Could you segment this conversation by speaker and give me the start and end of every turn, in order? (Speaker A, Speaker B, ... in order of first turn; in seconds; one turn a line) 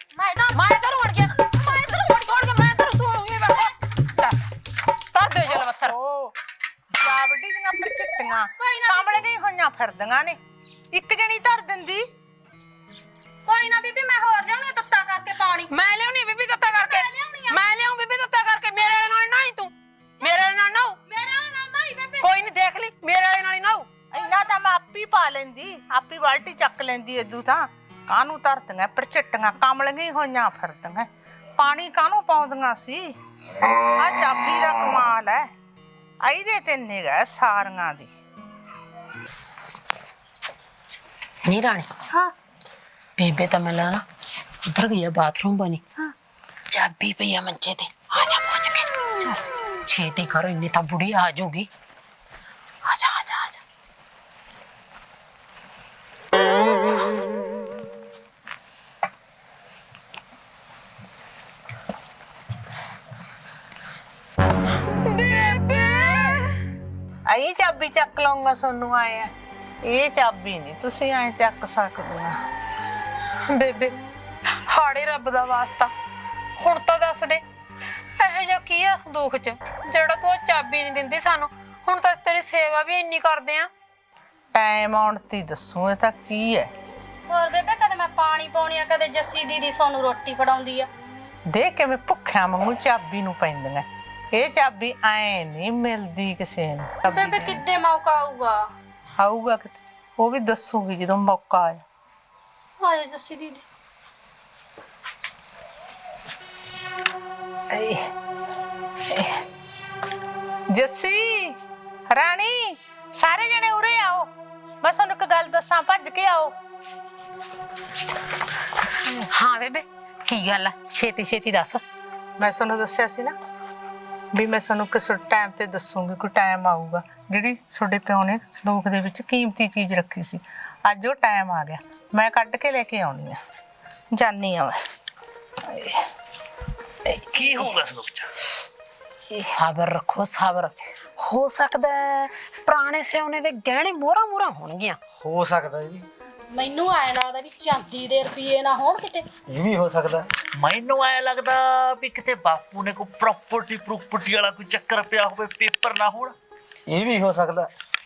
Speaker A: 0.1-0.8
Speaker B: 0.5-4.3
Speaker A: 1.6-2.1
Speaker B: 5.1-5.9
Speaker C: 5.5-6.3
Speaker C: 6.9-10.4
Speaker A: 8.6-9.2
Speaker C: 10.9-12.1
Speaker A: 13.4-15.7
Speaker B: 15.7-21.0
Speaker A: 16.6-17.7
Speaker A: 21.1-22.4
Speaker B: 22.2-23.9
Speaker C: 24.1-31.1
Speaker C: 31.6-33.1
Speaker C: 34.0-35.4
Speaker C: 36.2-38.1
Speaker B: 41.5-41.9
Speaker B: 43.2-44.0
Speaker B: 44.7-45.8
Speaker B: 46.7-48.9
Speaker B: 49.9-51.7
Speaker B: 52.9-53.6
Speaker B: 64.8-66.6
Speaker C: 67.3-69.3
Speaker C: 69.8-72.3
Speaker B: 73.5-73.9
Speaker B: 74.7-75.9
Speaker B: 76.6-77.4
Speaker B: 78.2-83.7
Speaker C: 84.5-86.7
Speaker A: 87.3-90.9
Speaker C: 91.5-97.6
Speaker A: 97.1-98.6
Speaker C: 99.2-101.8
Speaker A: 102.8-103.6
Speaker C: 107.7-108.1
Speaker C: 109.0-109.4
Speaker C: 110.7-111.6
Speaker C: 112.1-114.3
Speaker C: 114.8-116.5
Speaker B: 119.3-121.8
Speaker C: 122.4-123.3
Speaker C: 124.3-133.4
Speaker C: 134.1-134.8
Speaker C: 135.6-136.0
Speaker C: 137.1-137.7
Speaker D: 137.3-138.3
Speaker B: 139.4-145.0
Speaker E: 145.2-146.1
Speaker A: 146.5-149.2
Speaker E: 149.5-150.3
Speaker D: 150.6-156.3
Speaker E: 156.9-157.7